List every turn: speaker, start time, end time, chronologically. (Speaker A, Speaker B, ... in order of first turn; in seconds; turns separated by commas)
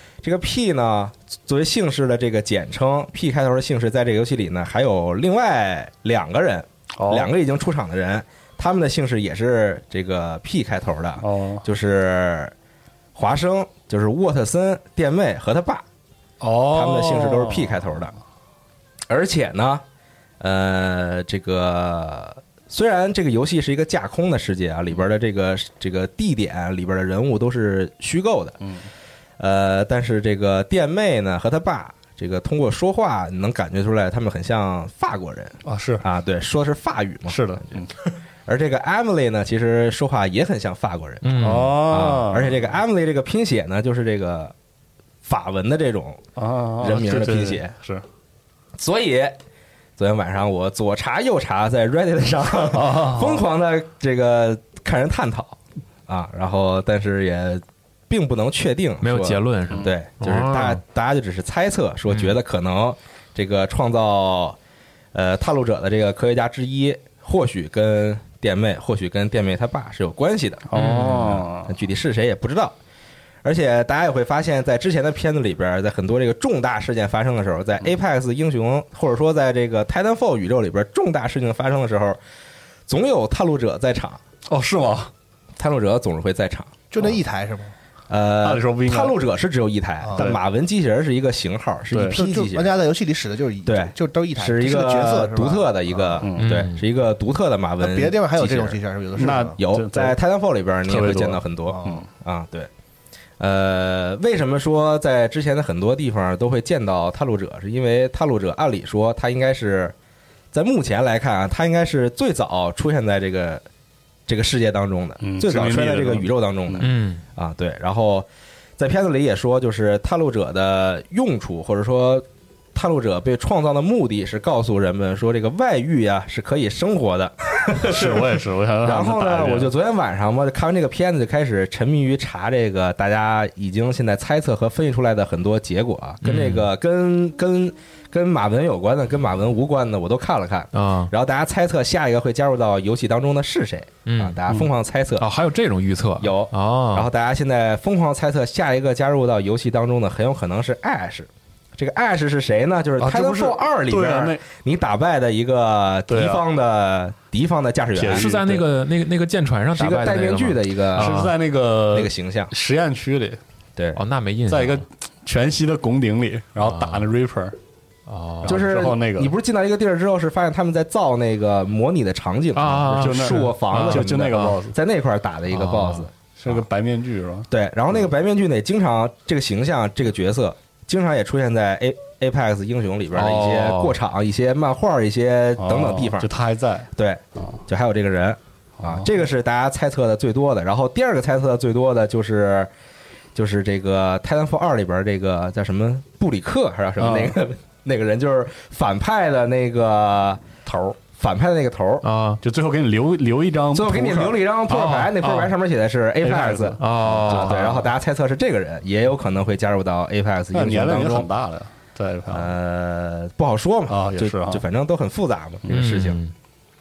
Speaker A: 0.2-12.5, Speaker B: 7.0-7.3, Speaker B: 11.2-11.7, Speaker A: 13.2-15.8, Speaker B: 16.4-17.9, Speaker A: 16.7-18.1, Speaker A: 19.1-19.8, Speaker A: 20.4-28.6, Speaker B: 28.6-28.9, Speaker A: 29.4-37.8, Speaker B: 35.6-36.1, Speaker B: 37.3-38.0, Speaker A: 38.5-44.5, Speaker C: 41.2-41.8, Speaker B: 41.4-42.5, Speaker A: 45.2-46.2, Speaker B: 46.4-48.0, Speaker A: 46.8-47.7, Speaker A: 48.8-49.4, Speaker A: 50.0-64.6, Speaker B: 52.7-53.5, Speaker C: 59.0-60.8, Speaker C: 62.1-62.4, Speaker A: 65.1-72.8, Speaker B: 70.7-71.8, Speaker C: 70.7-71.4, Speaker A: 73.4-82.2, Speaker A: 82.9-84.2, Speaker B: 84.5-85.1, Speaker A: 85.6-86.8, Speaker D: 86.9-87.7, Speaker A: 88.1-92.8, Speaker B: 88.4-89.2, Speaker B: 91.9-92.2, Speaker D: 92.1-96.2, Speaker A: 93.7-98.8, Speaker B: 96.2-96.7, Speaker C: 96.4-96.8, Speaker D: 97.8-99.6, Speaker B: 99.2-100.2, Speaker A: 99.6-102.7, Speaker B: 100.8-102.1, Speaker D: 101.7-102.0, Speaker A: 103.4-110.0, Speaker A: 110.5-113.6, Speaker A: 114.3-118.3, Speaker B: 115.2-116.9, Speaker C: 116.8-117.2, Speaker A: 118.8-145.3, Speaker B: 127.8-129.7, Speaker C: 136.2-136.7, Speaker C: 140.7-141.1, Speaker C: 144.1-144.4, Speaker C: 145.2-147.1, Speaker A: 146.2-158.3, Speaker B: 153.0-154.4, Speaker B: 156.1-156.4, Speaker B: 157.9-158.7, Speaker C: 158.1-161.3, Speaker A: 159.8-161.3, Speaker B: 161.0-163.4, Speaker A: 161.9-162.5, Speaker C: 163.9-164.8, Speaker B: 164.5-167.6, Speaker C: 166.6-167.1, Speaker C: 168.1-168.6, Speaker B: 168.4-169.3, Speaker A: 168.5-176.6, Speaker C: 172.6-174.5, Speaker B: 172.9-174.8, Speaker C: 175.5-176.1, Speaker B: 176.4-177.5, Speaker A: 177.5-186.3, Speaker C: 183.2-184.0, Speaker B: 185.6-187.6, Speaker A: 187.0-192.7, Speaker B: 188.8-189.2, Speaker A: 193.3-200.4, Speaker B: 197.0-197.4, Speaker B: 200.7-201.0, Speaker A: 201.2-202.1, Speaker C: 202.0-202.4, Speaker B: 202.4-204.4, Speaker A: 203.7-211.3, Speaker C: 204.7-205.6, Speaker B: 206.2-207.9, Speaker C: 206.8-207.7, Speaker B: 210.5-212.5, Speaker A: 212.3-216.2, Speaker B: 213.9-214.7, Speaker C: 215.7-216.3